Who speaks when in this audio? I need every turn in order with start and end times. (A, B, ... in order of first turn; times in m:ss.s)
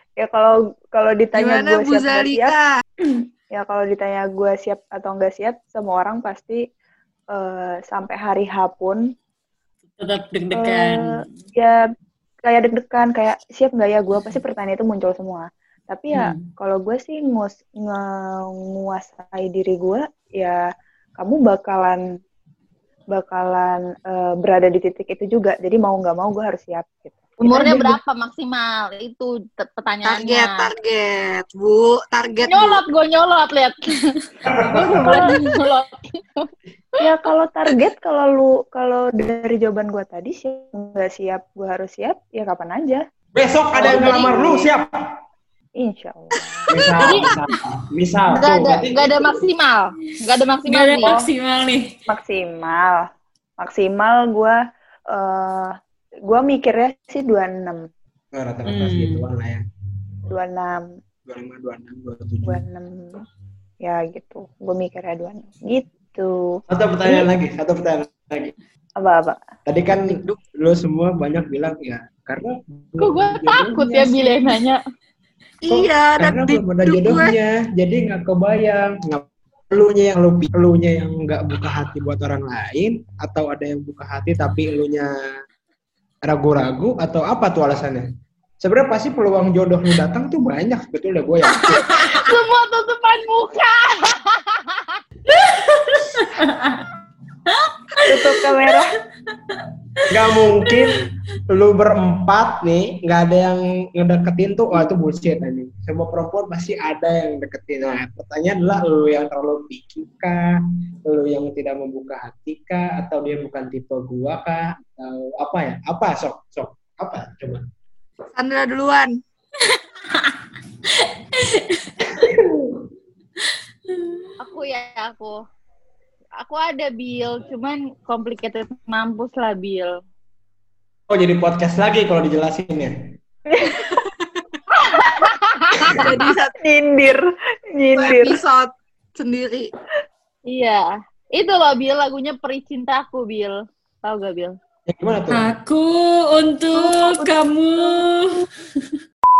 0:00.2-0:02.5 A
0:01.3-0:02.8 B
0:03.1-0:06.6 A
0:07.3-0:09.0 A
0:10.0-0:11.2 C
0:10.5-0:11.8 A
0:12.4-0:20.6 A
0:16.1-0:16.5 C
0:21.2-0:22.0 A
0:23.1-0:28.0 A
0:27.4-0:30.7 D
0:30.0-0:32.8 B
0:32.4-0:37.1 D
0:34.5-0:35.2 E
0:37.0-0:43.0 A
0:43.3-0:44.9 E
0:43.8-0:44.6 A
0:45.8-0:46.6 A
0:46.7-0:49.4 E
0:46.8-0:47.2 B
0:47.0-0:47.3 D
0:48.3-0:51.1 D
0:50.6-0:51.9 C
0:52.1-0:53.0 A
0:53.6-0:54.6 A
0:55.1-0:55.7 A
0:56.3-0:57.9 A
0:58.3-0:59.6 E
0:58.7-0:59.2 C
1:00.3-1:00.8 A
1:01.3-1:02.6 E
1:02.4-1:03.1 A
1:03.8-1:06.3 A
1:06.7-1:08.5 E
1:09.0-1:09.4 A
1:09.6-1:14.4 E
1:13.0-1:14.8 D
1:15.6-1:17.3 B
1:15.7-1:25.1 E
1:26.2-1:28.1 E
1:28.6-1:31.8 E
1:31.5-1:35.0 D
1:31.8-1:32.1 C
1:35.3-1:36.8 C
1:37.5-1:38.7 C
1:38.0-1:39.0 A
1:39.3-1:39.7 C
1:40.1-1:57.6 E
1:40.2-1:40.9 C
1:58.3-1:59.1 B
1:59.7-2:00.4 C
2:00.9-2:02.3 C
2:02.1-2:02.8 E
2:04.0-2:04.3 C
2:04.4-2:05.4 D
2:06.4-2:09.9 D
2:11.1-2:12.9 E
2:13.5-2:13.8 A
2:15.0-2:16.3 D
2:15.9-2:16.5 B
2:15.9-2:18.4 A
2:17.9-2:19.7 B
2:20.5-2:20.8 D
2:21.4-2:24.5 D
2:24.9-2:25.5 E
2:25.3-2:28.9 C
2:26.8-2:28.1 A